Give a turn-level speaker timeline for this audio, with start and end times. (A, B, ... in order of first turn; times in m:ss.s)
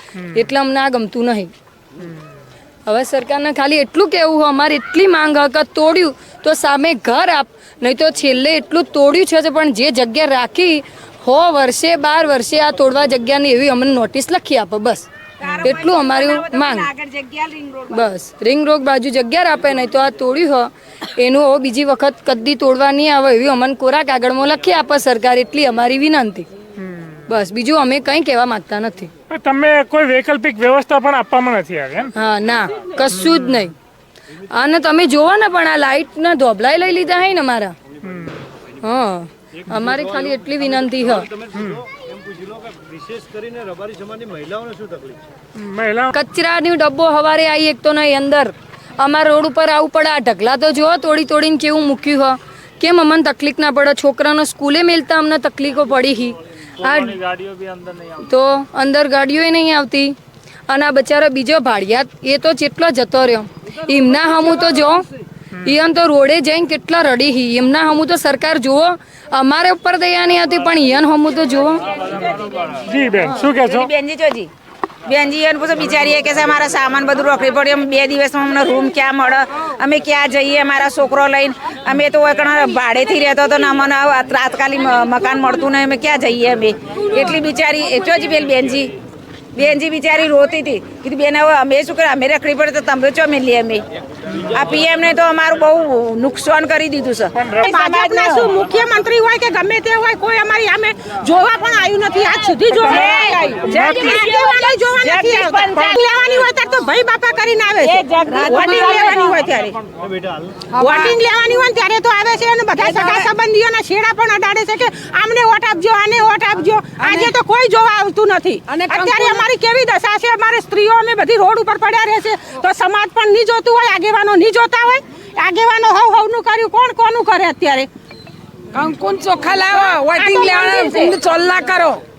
0:00.3-0:01.5 A
0:02.9-0:15.1 A
0:15.4-0:18.1 B
0:15.6-0:16.9 A
0:17.9-0:26.5 A
0:27.3-0:29.1 A
0:29.3-0:32.1 C
0:32.2-0:33.7 A
0:34.5-0:37.8 A
0:38.1-0:38.4 C
0:38.8-0:41.3 A
0:41.3-0:45.2 D
0:41.5-0:41.8 C
0:45.6-0:46.1 C
0:46.1-0:57.3 A
0:58.2-1:00.2 A
1:00.7-1:05.0 A
1:05.6-1:11.9 A
1:12.8-1:13.9 C
1:13.5-1:14.5 B
1:15.1-1:29.0 B
1:29.6-1:33.8 B
1:34.4-1:38.5 B
1:37.4-1:37.7 C
1:37.6-1:49.8 E
1:42.9-1:44.2 C
1:42.9-1:46.0 B
1:47.8-1:49.2 B
1:48.4-1:49.3 D
1:50.1-1:50.6 D
1:50.8-1:51.2 B
1:50.8-2:07.9 E
1:52.8-1:53.2 D
1:59.0-1:59.4 D
2:08.8-2:12.0 D
2:09.7-2:11.2 E